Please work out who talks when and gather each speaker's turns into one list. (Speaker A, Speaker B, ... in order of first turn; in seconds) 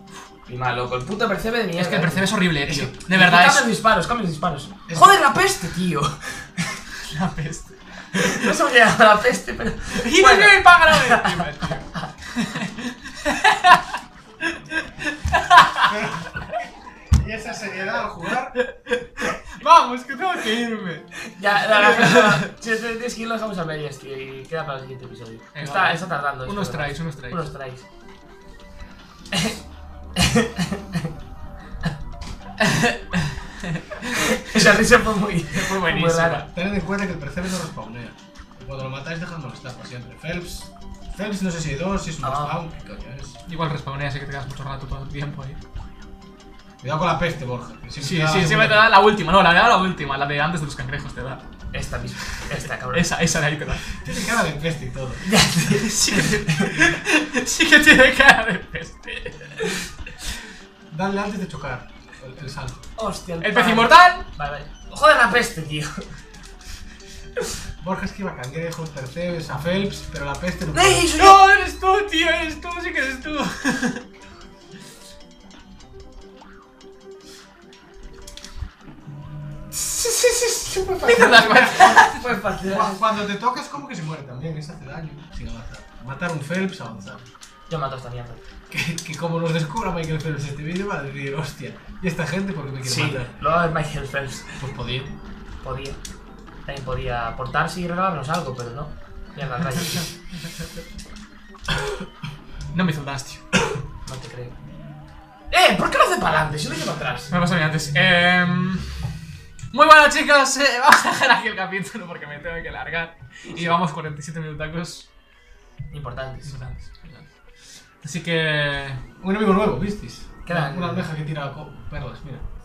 Speaker A: 0.5-2.3, 3.0-6.9, 8.1-11.2, 21.4-27.9, 29.3-29.6, 30.2-31.1, 34.2-36.5, 42.2-42.6, 51.7-53.1, 55.2-56.7, 63.0-66.1, 70.7-71.4, 79.7-83.0, 87.7-88.4, 92.8-94.5, 95.6-96.0, 96.7-100.1, 104.1-104.6, 105.5-107.3, 115.9-116.6, 120.5-121.1
Speaker B: 1.8-3.7, 7.0-8.5, 9.9-13.8, 14.7-15.9, 18.6-22.5, 25.6-27.4, 32.6-34.7, 35.5-36.5, 43.5-45.6, 48.0-51.4, 52.4-54.1, 55.7-59.9, 63.4-64.3, 71.2-74.0, 81.0-82.2, 102.7-103.5, 107.3-108.9, 109.7-115.1, 116.5-117.3, 118.0-119.0
Speaker C: 2.7-2.9, 4.9-5.2, 15.8-18.6, 36.5-43.4, 46.8-48.9, 54.0-55.3, 60.9-62.8, 67.8-71.1, 82.7-87.2, 88.7-93.3, 94.6-95.1, 119.2-122.5